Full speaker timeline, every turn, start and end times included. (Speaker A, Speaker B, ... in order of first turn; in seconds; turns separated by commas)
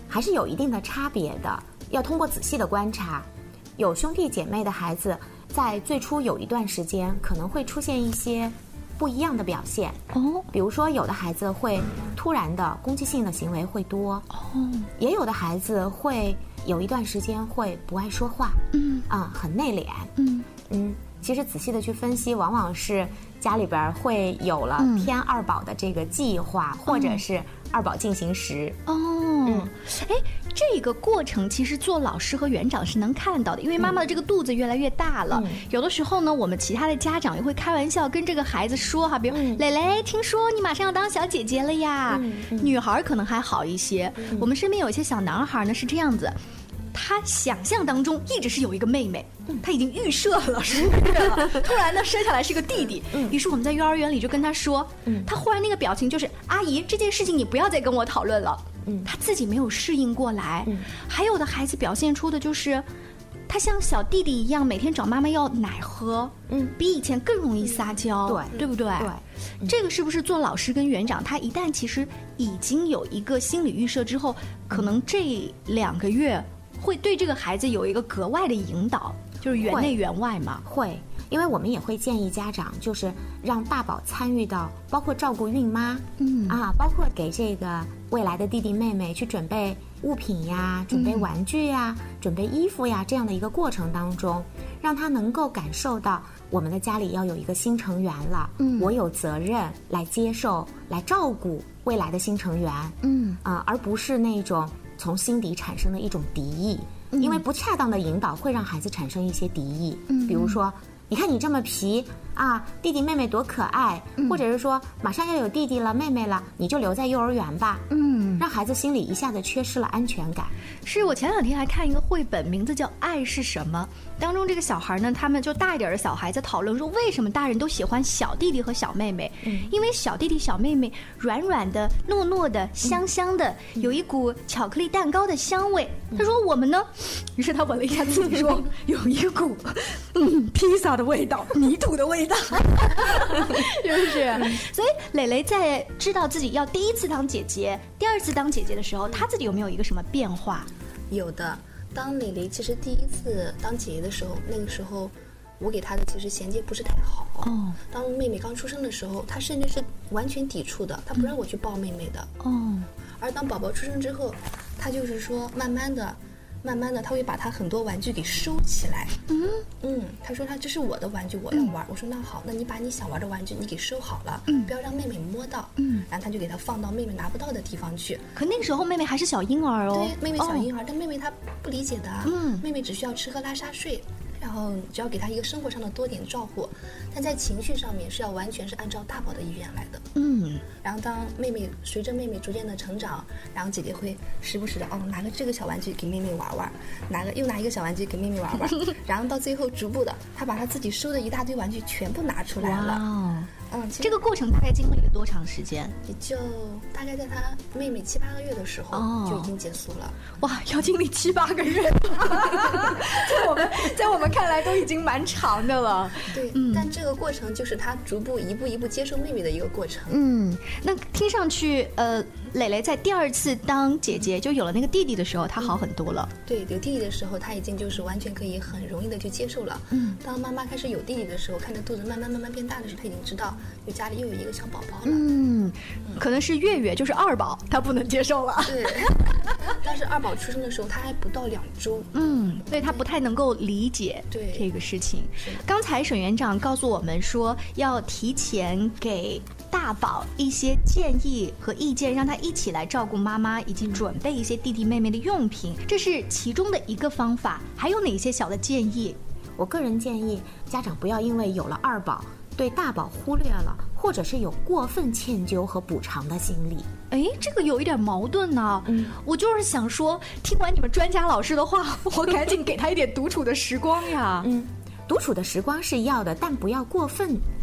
Speaker A: 0.1-14.3, Speaker B: 10.1-10.5, Speaker B: 14.3-14.9, Speaker A: 15.0-20.1, Speaker B: 18.7-19.1, Speaker B: 20.2-20.5, Speaker A: 20.7-28.8, Speaker B: 24.8-25.1, Speaker B: 26.9-27.2, Speaker B: 28.9-46.4, Speaker A: 35.3-35.6, Speaker A: 39.3-39.6, Speaker A: 42.1-42.7, Speaker A: 44.2-44.5, Speaker B: 46.9-62.9, Speaker A: 53.0-53.4, Speaker A: 55.0-55.3, Speaker A: 58.8-59.1, Speaker B: 63.5-69.1, Speaker A: 66.5-66.8, Speaker A: 67.6-69.8, Speaker B: 69.7-80.6, Speaker A: 79.6-80.0, Speaker A: 80.6-120.5, Speaker B: 86.2-86.6, Speaker B: 90.9-91.3, Speaker B: 98.6-98.9, Speaker B: 103.0-103.4, Speaker B: 107.1-107.4, Speaker B: 110.1-110.6, Speaker B: 117.9-118.4, Speaker B: 120.8-150.7, Speaker A: 129.4-129.7, Speaker C: 151.1-162.3, Speaker B: 157.4-157.8, Speaker B: 162.4-162.9, Speaker C: 163.2-169.2, Speaker B: 169.3-169.6, Speaker C: 169.8-178.3, Speaker B: 175.8-176.1, Speaker B: 178.4-180.7, Speaker C: 179.9-190.1, Speaker B: 182.2-182.7, Speaker B: 190.2-190.6, Speaker C: 190.8-203.0, Speaker B: 202.6-206.0, Speaker C: 203.7-204.2, Speaker C: 206.1-210.3, Speaker B: 208.9-209.5, Speaker B: 210.4-216.9, Speaker C: 216.3-220.2, Speaker B: 220.1-226.3, Speaker C: 226.5-235.3, Speaker B: 229.9-230.2, Speaker B: 235.0-239.7, Speaker C: 238.6-242.1, Speaker B: 242.1-259.2, Speaker C: 242.8-243.1, Speaker C: 244.3-244.7, Speaker A: 259.6-266.9, Speaker B: 267.1-274.5, Speaker A: 268.9-269.1, Speaker A: 274.4-277.4